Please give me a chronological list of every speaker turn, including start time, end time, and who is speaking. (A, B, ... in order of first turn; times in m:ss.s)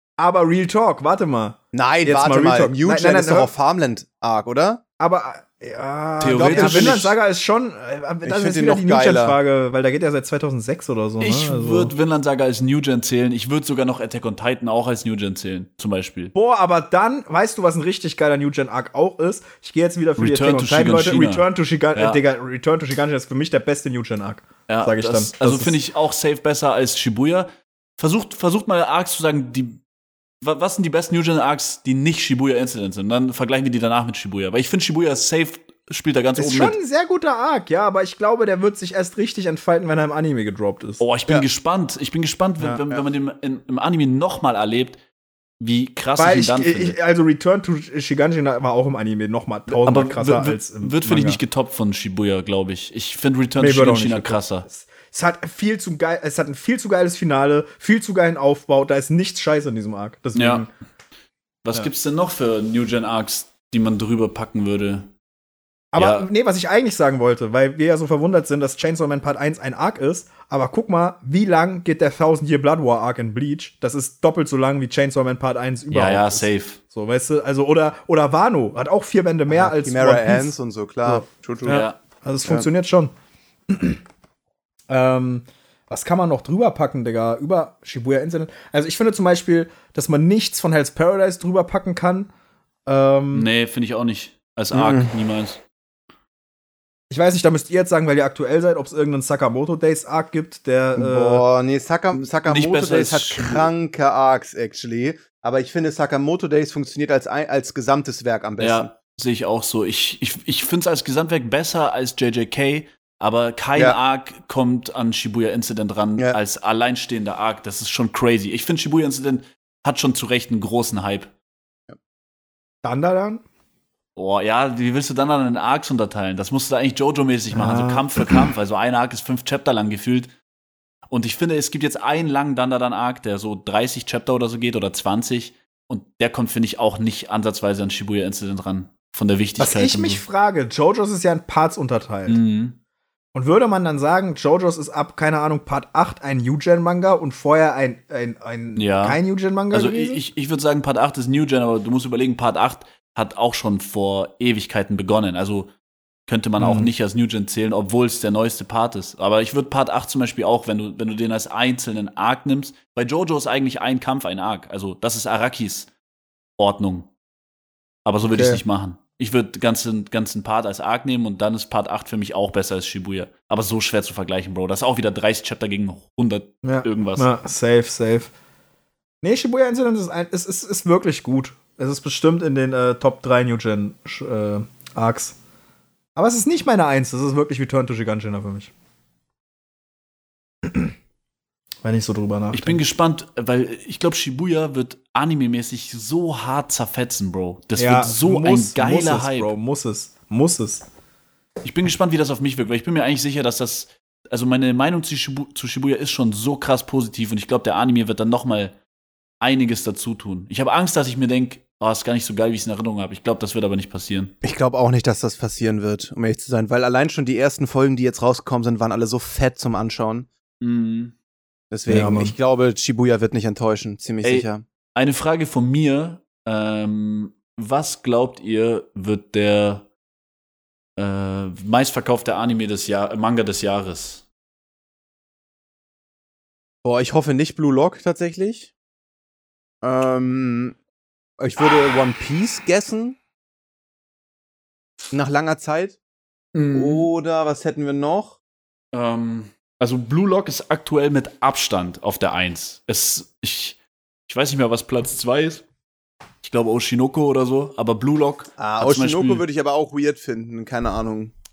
0:00.2-0:03.5 A
0:01.7-0:04.8 B
0:05.0-0:11.9 A
0:06.2-0:07.1 C
0:06.3-0:07.1 B
0:08.2-0:09.4 B
0:11.2-0:16.3 C
0:16.3-0:25.7 A
0:20.2-0:22.2 C
0:24.7-0:29.8 C
0:30.4-0:36.8 C
0:36.4-0:41.0 A
0:41.0-0:45.0 C
0:45.6-0:47.0 C
0:46.2-0:51.4 A
0:49.7-0:54.6 C
0:53.6-1:00.7 A
1:00.3-1:00.6 C
1:01.6-1:05.1 C
1:05.9-1:23.1 A
1:06.0-1:06.3 C
1:15.9-1:16.8 C
1:19.5-1:21.8 B
1:21.7-1:22.0 C
1:23.7-1:24.0 A
1:24.9-1:32.3 A
1:32.8-1:33.5 A
1:33.3-1:35.6 C
1:34.7-1:35.1 B
1:37.1-1:41.4 A
1:41.0-1:48.9 B
1:42.2-1:43.7 C
1:48.6-2:01.3 C
2:02.8-2:03.4 A
2:04.2-2:10.3 C
2:07.5-2:08.4 A
2:11.1-2:20.2 C
2:19.6-2:22.4 A
2:22.3-2:22.8 C
2:23.3-2:30.2 A
2:28.7-2:29.2 C
2:29.7-2:35.7 C
2:36.3-2:45.9 C
2:36.6-2:36.9 A
2:46.6-2:47.1 C
2:48.0-2:57.3 C
2:48.2-2:48.6 A
2:56.6-2:58.3 A
2:59.2-3:05.3 A
3:06.2-3:08.7 A
3:10.6-3:10.9 A
3:11.8-3:12.8 A
3:12.5-3:19.5 C
3:17.8-3:20.8 A
3:21.6-3:28.7 C
3:29.4-3:34.3 C
3:34.4-3:40.3 B
3:40.6-3:41.1 C
3:41.7-3:44.6 B
3:41.9-3:42.3 A
3:44.2-3:49.9 C
3:51.0-3:54.2 C
3:56.8-3:58.7 B
3:59.8-4:00.8 B
4:01.4-4:03.2 B
4:05.1-4:06.0 B
4:06.5-4:07.1 C
4:06.7-4:08.4 B
4:08.9-4:13.8 C
4:14.3-4:15.6 C
4:16.4-4:19.4 C
4:18.6-4:21.3 B